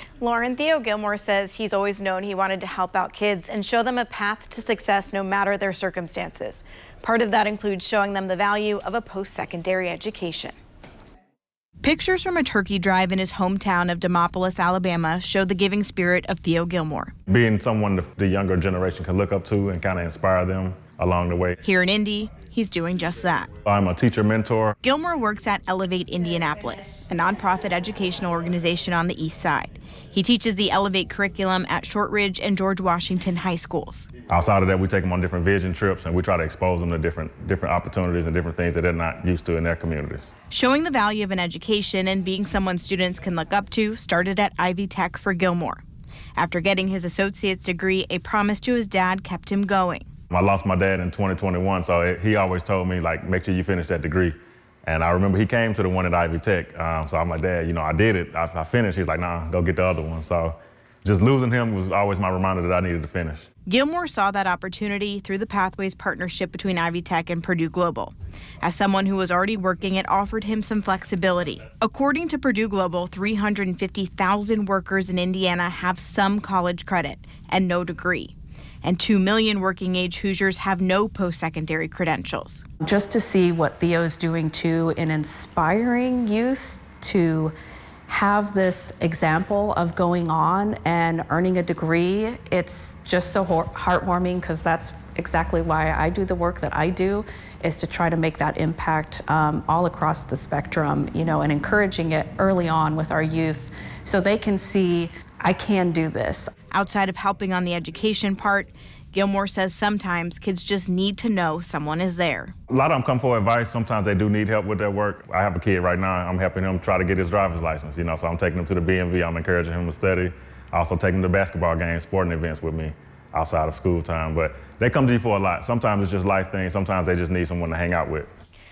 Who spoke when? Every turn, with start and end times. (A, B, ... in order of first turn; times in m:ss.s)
0:00.2-0:10.5 A
0:11.8-0:17.1 A
0:17.3-0:21.6 B
0:21.6-0:23.5 A
0:23.6-0:24.7 B
0:24.8-0:34.1 A
0:34.3-0:40.3 B
0:40.5-0:45.8 A
0:46.4-0:50.1 A
0:50.3-1:03.5 B
1:03.6-1:22.6 A
1:22.8-1:27.5 C
1:28.1-1:46.5 C
1:46.7-1:52.5 A
1:52.7-2:08.3 B